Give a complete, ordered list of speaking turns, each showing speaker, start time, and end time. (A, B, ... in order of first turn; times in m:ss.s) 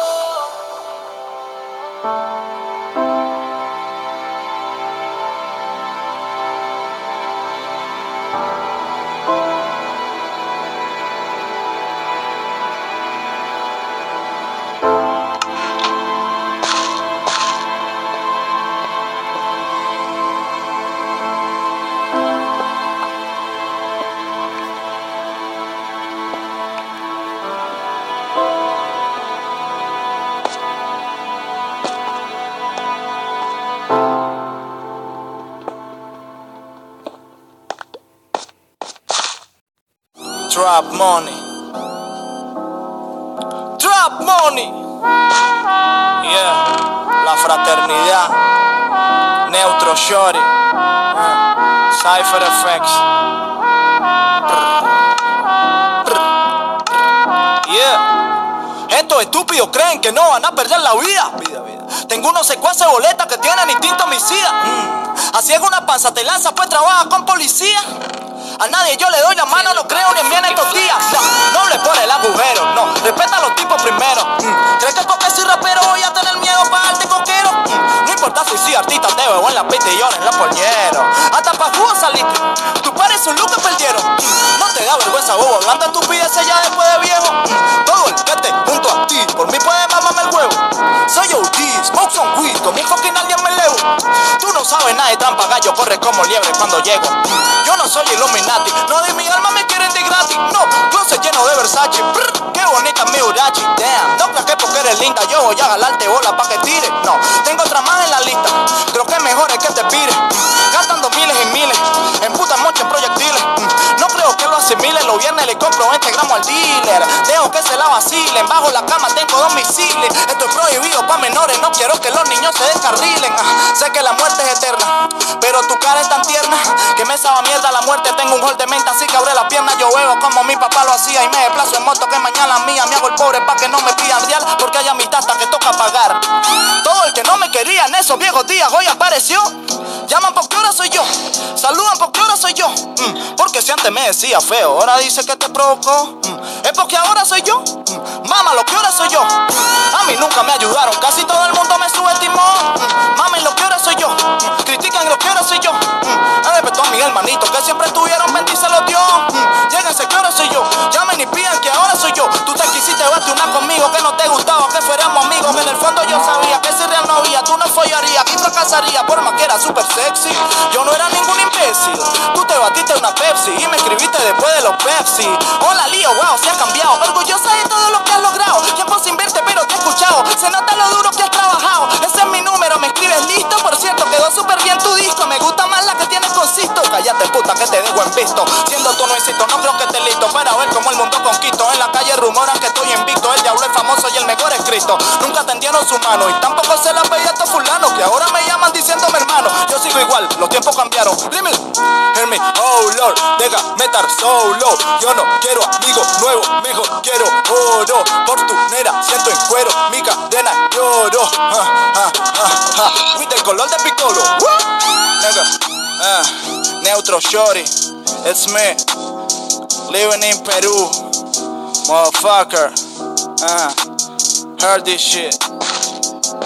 0:40.5-0:41.5 A
0:43.8-0:44.8 A
0:46.2-0:48.4 A
0:49.4-0:50.5 A
0:51.1-0:53.0 A
0:54.5-0:54.9 A
0:56.0-0:56.3 A
0:57.6-0:58.1 A
0:58.9-1:07.9 A
1:08.6-3:38.8 A
3:39.8-3:41.0 A
3:41.8-3:42.8 A
3:43.4-3:43.8 A
3:44.6-3:45.4 A